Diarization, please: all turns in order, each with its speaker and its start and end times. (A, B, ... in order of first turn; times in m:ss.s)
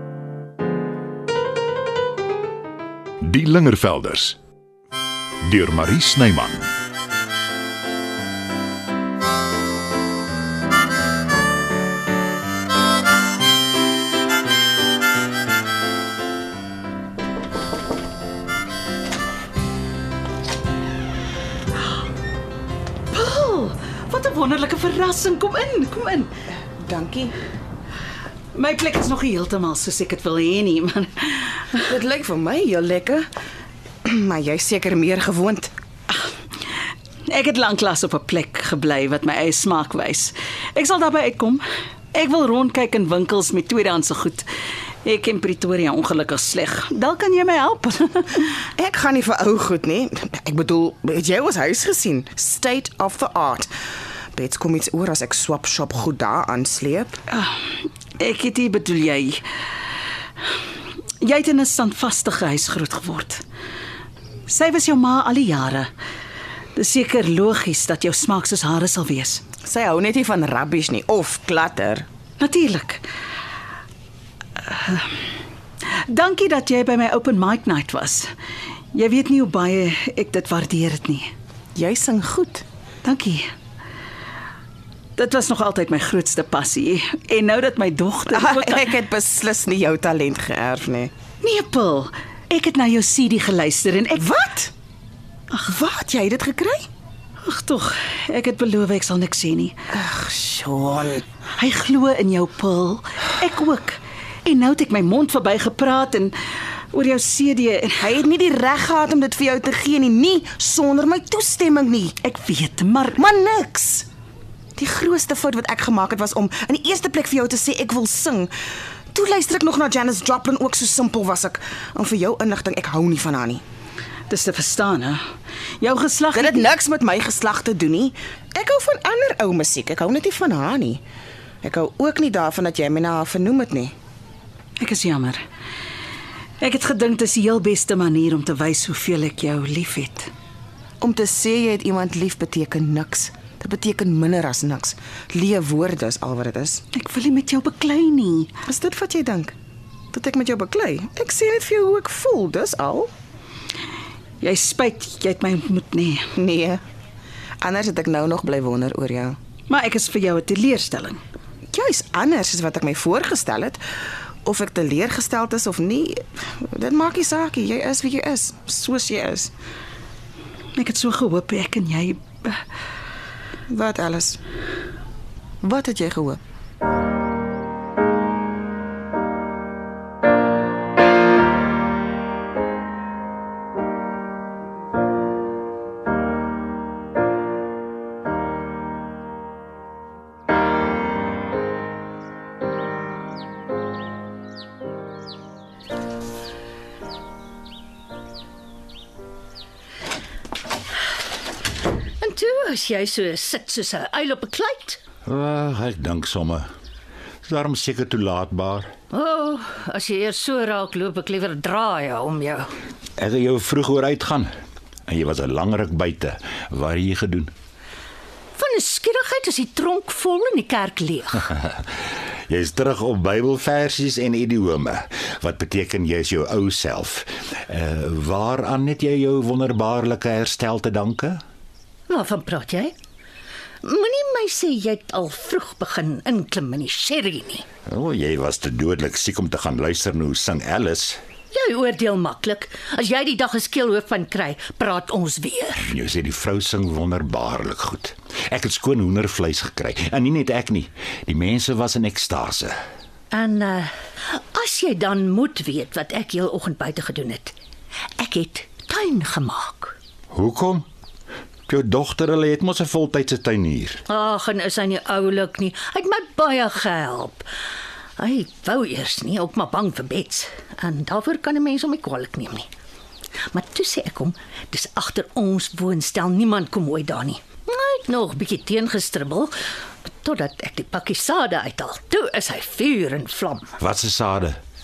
0:03.2-0:04.4 A
0:05.5-0:06.7 A
0:23.1-0:26.3 B
0:26.8-0:27.4 C
0:28.5-0:31.8 B
0:31.8-0:33.3 C
0:34.0-0:35.7 C
0:37.3-0:41.6 B
0:42.1-0:44.5 B
0:45.0-0:48.5 B
0:48.8-0:53.7 C
0:54.4-0:57.2 C
0:57.3-0:57.6 B
0:58.2-0:59.4 B
1:01.2-1:03.4 B
1:04.5-1:05.9 B
1:06.8-1:09.4 B
1:09.6-1:12.1 C
1:12.4-1:13.0 B
1:14.6-1:15.1 B
1:16.1-1:18.3 B
1:18.9-1:21.3 B
1:21.8-1:22.6 C
1:23.0-1:23.5 B
1:25.2-1:28.9 B
1:28.3-1:31.1 C
1:31.4-1:34.3 B
1:34.2-1:34.7 C
1:35.6-1:36.9 C
1:37.4-1:39.8 B
1:39.9-1:41.2 C
1:41.6-1:46.4 B
1:46.9-1:48.2 B
1:48.0-1:52.2 C
1:52.2-1:53.2 B
1:53.2-1:54.1 C
1:54.8-1:58.5 C
1:59.1-2:03.6 C
2:04.3-2:05.2 B
2:05.8-2:06.7 B
2:06.3-2:11.0 C
2:11.6-2:13.9 C
2:14.8-2:15.4 B
2:16.6-2:20.3 B
2:21.0-2:26.8 C
2:26.9-2:28.6 B
2:28.7-2:29.6 C
2:30.1-2:33.1 C
2:34.4-2:36.3 B
2:36.4-2:36.8 C
2:37.6-2:39.4 C
2:39.7-2:41.2 B
2:41.7-2:43.8 C
2:44.4-2:49.5 C
2:50.8-2:52.6 B
2:53.7-2:54.4 C
2:55.6-2:56.4 C
3:22.2-3:25.0 D
3:25.2-3:26.7 E
3:27.4-3:28.9 E
3:29.1-3:32.7 D
3:33.2-3:34.5 E
3:35.1-3:37.5 E
3:38.6-3:41.5 D
3:42.5-3:51.4 E
3:52.1-3:52.9 D
3:53.8-3:57.6 D
3:57.9-4:01.2 E
4:01.5-4:05.9 D
4:05.8-4:12.8 E
4:13.3-4:17.5 D
4:18.2-4:20.0 D
4:20.3-4:20.8 E
4:21.7-4:24.0 E
4:24.1-4:27.5 D
4:28.2-4:32.7 D
4:33.5-4:39.5 D
4:40.2-4:43.7 D
4:43.8-4:44.6 E